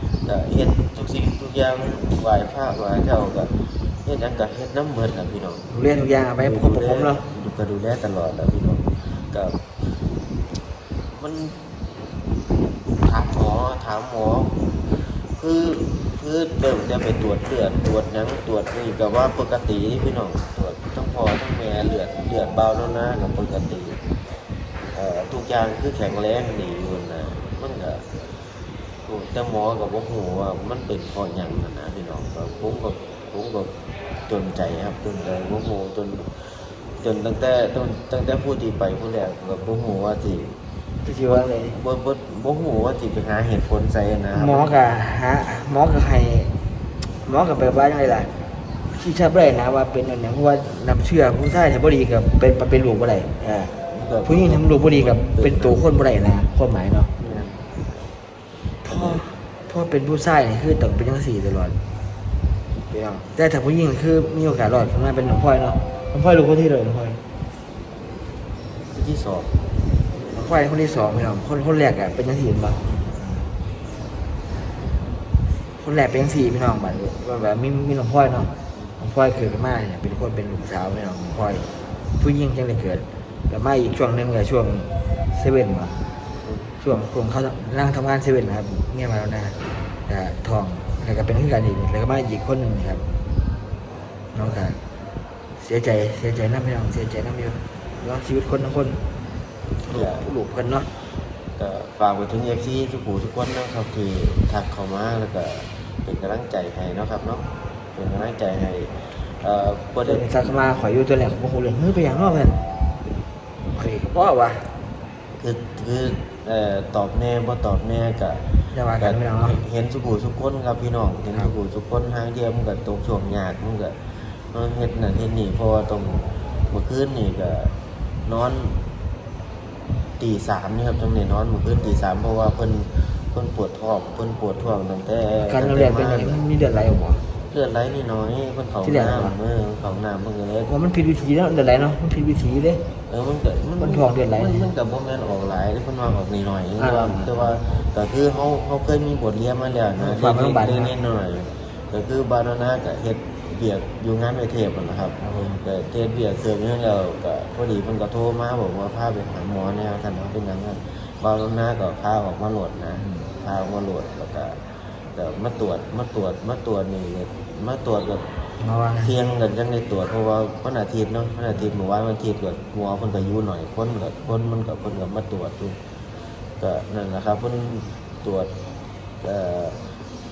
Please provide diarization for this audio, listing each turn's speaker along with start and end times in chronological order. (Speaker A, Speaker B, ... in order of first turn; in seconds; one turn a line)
Speaker A: 0.2-5.7
Speaker B: 5.7-7.2
Speaker A: 6.4-9.6
Speaker A: 11.1-11.8
Speaker A: 12.9-24.0
Speaker A: 24.9-28.1
Speaker A: 29.1-33.7
Speaker A: 34.3-40.6
Speaker B: 41.0-41.8
Speaker A: 41.2-44.7
Speaker B: 44.3-46.5
Speaker B: 47.2-48.3
Speaker B: 48.9-57.1
Speaker A: 53.7-55.8
Speaker A: 57.2-58.1
Speaker B: 58.8-61.8
Speaker A: 58.9-59.2
Speaker B: 62.9-67.2
Speaker A: 68.8-69.5
Speaker B: 70.2-73.4
Speaker B: 75.8-86.0
Speaker A: 86.4-86.7
Speaker B: 86.8-93.0
Speaker B: 94.3-94.8
Speaker B: 95.6-99.0
Speaker B: 99.8-100.9
Speaker A: 99.9-100.3
Speaker A: 101.6-110.3
Speaker B: 110.0-112.6
Speaker B: 113.7-114.7
Speaker A: 115.4-127.7
Speaker B: 118.7-119.6
Speaker A: 128.2-128.8
Speaker A: 130.2-136.3
Speaker B: 135.4-137.2
Speaker A: 137.5-140.7
Speaker B: 138.8-139.3
Speaker B: 140.7-142.8
Speaker A: 143.1-164.6
Speaker B: 143.8-144.7
Speaker B: 146.8-147.6
Speaker B: 150.0-150.9
Speaker B: 155.2-155.6
Speaker B: 163.0-163.3
Speaker A: 165.1-168.3
Speaker B: 168.6-169.1
Speaker A: 169.0-175.8
Speaker A: 176.6-178.5
Speaker A: 179.2-179.9